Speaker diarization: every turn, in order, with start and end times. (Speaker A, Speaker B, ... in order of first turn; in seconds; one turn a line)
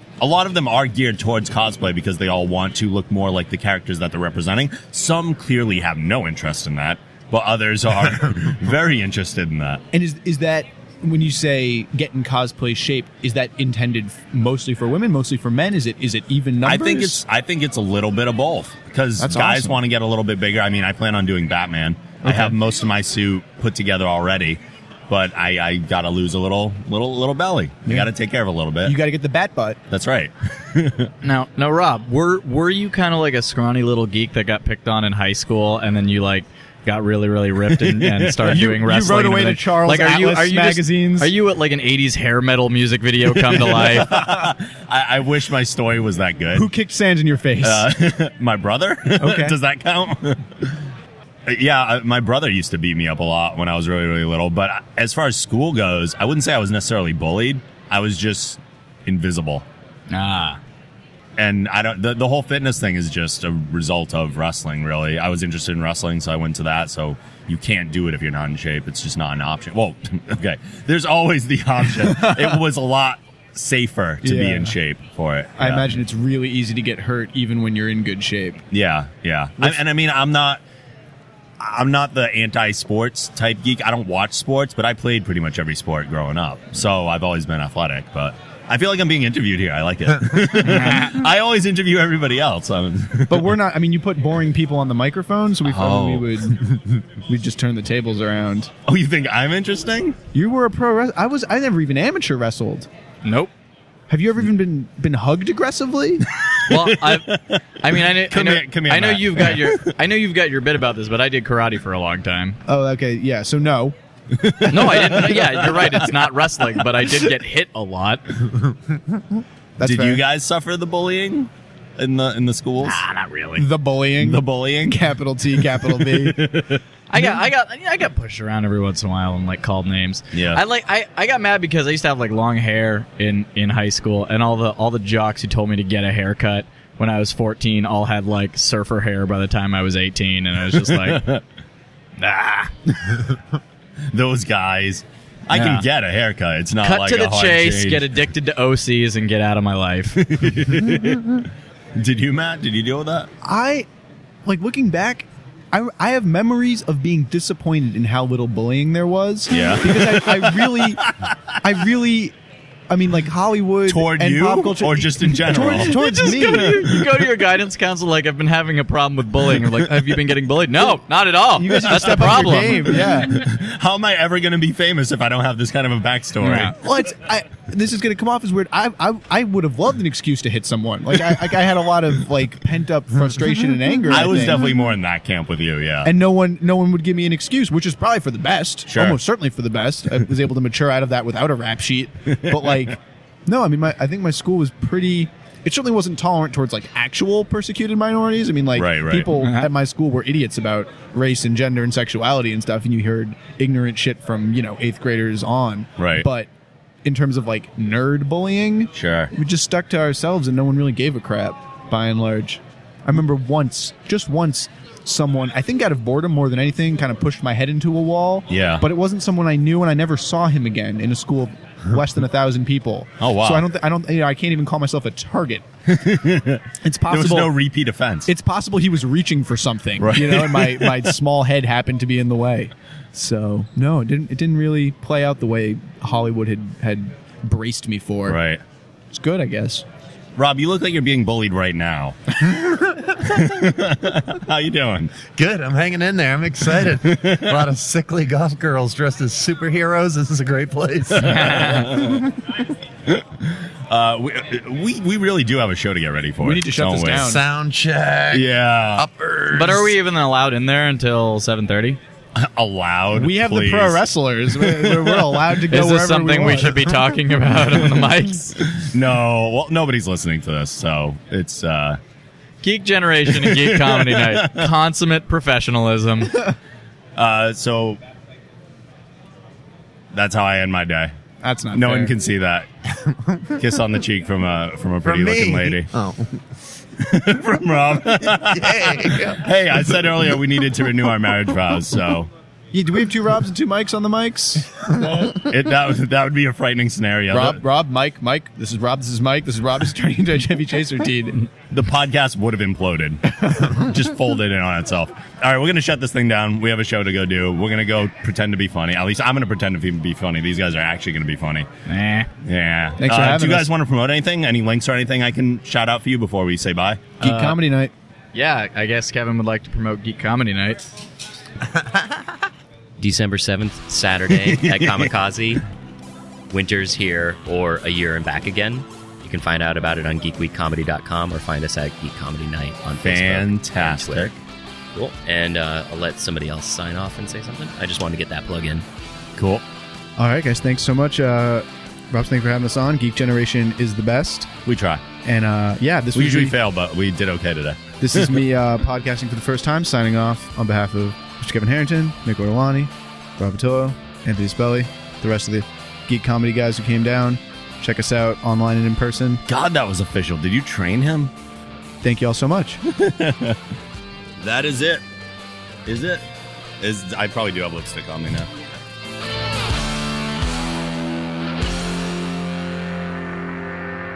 Speaker A: 0.2-9.8
Speaker B: 9.9-17.2
Speaker A: 16.6-29.0
Speaker B: 19.2-19.8
Speaker B: 22.2-22.5
Speaker B: 28.8-29.8
Speaker A: 29.9-31.1
Speaker C: 31.2-44.2
Speaker A: 37.7-38.3
Speaker B: 38.4-41.3
Speaker A: 43.5-46.7
Speaker B: 46.5-47.9
Speaker A: 47.6-50.8
Speaker B: 49.2-49.6
Speaker A: 51.5-59.6
Speaker C: 60.1-60.6
Speaker A: 61.4-76.0
Speaker B: 74.2-74.8
Speaker B: 75.6-78.6
Speaker A: 78.7-80.6
Speaker A: 81.6-93.6
Speaker C: 90.6-91.2
Speaker B: 93.3-98.7
Speaker A: 95.6-96.5
Speaker A: 98.8-100.2
Speaker B: 100.3-102.9
Speaker C: 103.2-103.5
Speaker B: 104.1-106.3
Speaker A: 106.7-109.9
Speaker C: 106.7-112.6
Speaker B: 112.6-113.9
Speaker A: 114.3-116.5
Speaker C: 114.7-118.4
Speaker B: 119.8-120.2
Speaker A: 119.8-123.0
Speaker C: 122.8-123.6
Speaker B: 123.6-126.5
Speaker A: 124.2-125.0
Speaker A: 125.6-126.8
Speaker C: 127.1-141.3
Speaker A: 130.3-130.6
Speaker A: 140.9-141.4
Speaker C: 142.2-142.7
Speaker A: 144.1-148.2
Speaker C: 145.5-145.8
Speaker C: 146.8-150.3
Speaker A: 150.2-153.3
Speaker B: 153.4-153.9
Speaker B: 154.4-162.3
Speaker A: 159.5-161.1
Speaker B: 162.9-167.0
Speaker A: 163.9-167.2
Speaker C: 165.7-173.1
Speaker B: 171.5-173.5
Speaker A: 171.9-176.7
Speaker C: 176.4-176.8
Speaker B: 176.7-184.7
Speaker A: 184.1-186.1
Speaker B: 186.0-206.5
Speaker A: 188.9-189.2
Speaker A: 192.5-192.8
Speaker A: 198.7-199.3
Speaker C: 199.3-199.7
Speaker A: 206.0-206.3
Speaker B: 207.0-225.6
Speaker A: 208.9-209.3
Speaker A: 218.5-218.9
Speaker A: 223.2-223.7
Speaker A: 225.9-228.3
Speaker B: 226.8-227.5
Speaker B: 228.2-238.4
Speaker A: 230.0-231.1
Speaker A: 238.2-238.6
Speaker B: 239.1-239.8
Speaker A: 240.4-242.4
Speaker A: 243.1-245.1
Speaker D: 245.3-252.1
Speaker A: 247.0-247.6
Speaker C: 251.2-252.1
Speaker A: 251.3-252.2
Speaker A: 253.1-257.3
Speaker B: 256.4-257.4
Speaker D: 257.1-259.9
Speaker A: 258.3-259.1
Speaker C: 259.5-262.0
Speaker A: 262.3-265.5
Speaker B: 263.1-266.9
Speaker C: 265.6-268.6
Speaker A: 268.7-272.0
Speaker C: 272.6-276.4
Speaker A: 273.3-274.7
Speaker A: 277.1-278.0
Speaker A: 280.1-281.1
Speaker B: 281.4-282.1
Speaker A: 281.7-282.7
Speaker D: 283.0-283.5
Speaker A: 283.6-285.9
Speaker D: 285.0-286.4
Speaker A: 287.0-292.3
Speaker D: 288.3-290.0
Speaker B: 292.7-295.3
Speaker A: 295.4-297.6
Speaker B: 297.3-301.4
Speaker A: 301.7-311.7
Speaker C: 311.9-312.3
Speaker A: 312.4-317.2
Speaker B: 313.0-313.7
Speaker B: 317.2-317.9
Speaker C: 317.2-317.6
Speaker C: 318.3-320.9
Speaker E: 323.0-325.6
Speaker A: 324.3-325.1
Speaker E: 326.5-334.3
Speaker A: 333.0-334.3
Speaker E: 334.9-338.8
Speaker A: 339.4-339.6
Speaker B: 340.2-344.5
Speaker A: 344.6-345.0
Speaker B: 345.2-346.6
Speaker A: 346.1-348.4
Speaker B: 348.0-359.4
Speaker A: 359.5-361.3
Speaker B: 362.0-362.8
Speaker A: 362.9-363.6
Speaker A: 364.4-365.0
Speaker A: 365.8-366.2
Speaker A: 366.8-368.5